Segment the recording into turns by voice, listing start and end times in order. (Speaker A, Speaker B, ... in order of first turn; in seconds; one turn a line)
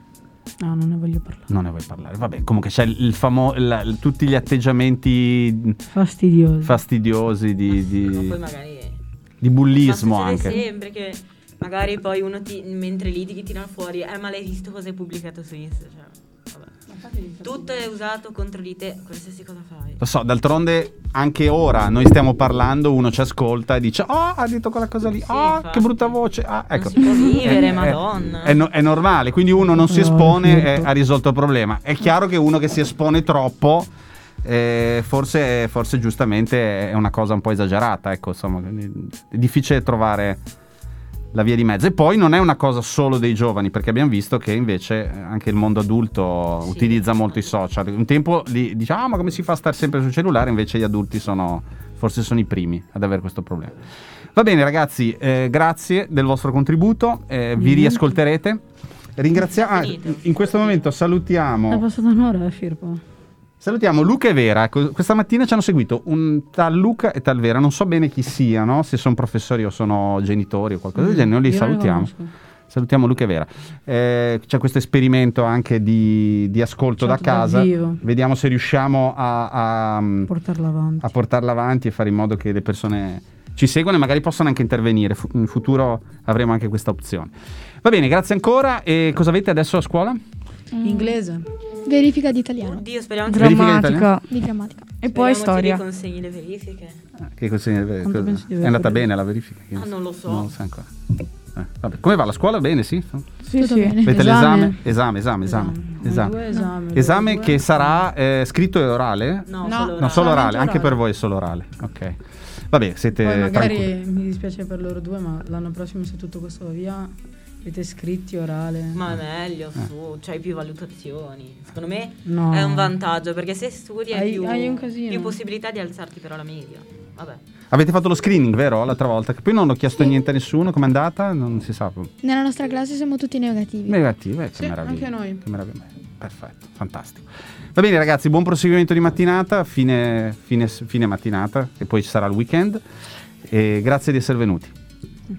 Speaker A: 0.6-1.5
Speaker B: 1.5-5.8
Speaker A: 5.9-6.8
Speaker B: 6.6-8.4
Speaker C: 7.7-9.0
Speaker B: 9.4-10.6
Speaker C: 9.8-16.7
Speaker A: 16.9-17.8
Speaker C: 17.4-20.0
Speaker B: 20.0-33.9
Speaker C: 25.2-26.1
Speaker C: 26.7-28.6
Speaker A: 29.6-30.9
Speaker B: 34.4-40.4
Speaker B: 41.3-53.8
Speaker C: 46.7-47.5
Speaker B: 54.4-58.6
Speaker A: 57.6-58.2
Speaker B: 59.2-61.8
Speaker C: 59.5-60.9
Speaker A: 61.7-63.0
Speaker B: 63.6-72.1
Speaker A: 71.0-72.3
Speaker B: 72.7-80.3
Speaker A: 77.0-78.0
Speaker A: 80.3-81.1
Speaker B: 81.0-90.2
Speaker D: 90.7-91.2
Speaker A: 90.8-91.5
Speaker E: 91.9-92.8
Speaker C: 92.7-93.9
Speaker D: 93.3-94.3
Speaker B: 93.3-94.1
Speaker E: 94.3-94.9
Speaker D: 95.0-95.8
Speaker C: 95.1-97.0
Speaker B: 97.4-100.9
Speaker A: 98.0-99.1
Speaker C: 99.8-100.5
Speaker B: 101.5-103.3
Speaker D: 103.5-104.1
Speaker E: 103.5-104.1
Speaker A: 103.9-104.8
Speaker B: 104.0-113.9
Speaker A: 105.4-108.1
Speaker C: 109.5-110.5
Speaker A: 109.6-111.0
Speaker A: 113.2-119.0
Speaker C: 118.9-127.4
Speaker A: 122.2-122.9
Speaker A: 124.1-125.4
Speaker B: 127.7-132.1
Speaker E: 132.2-134.0
Speaker B: 133.9-142.8
Speaker A: 134.6-135.4
Speaker B: 143.4-144.7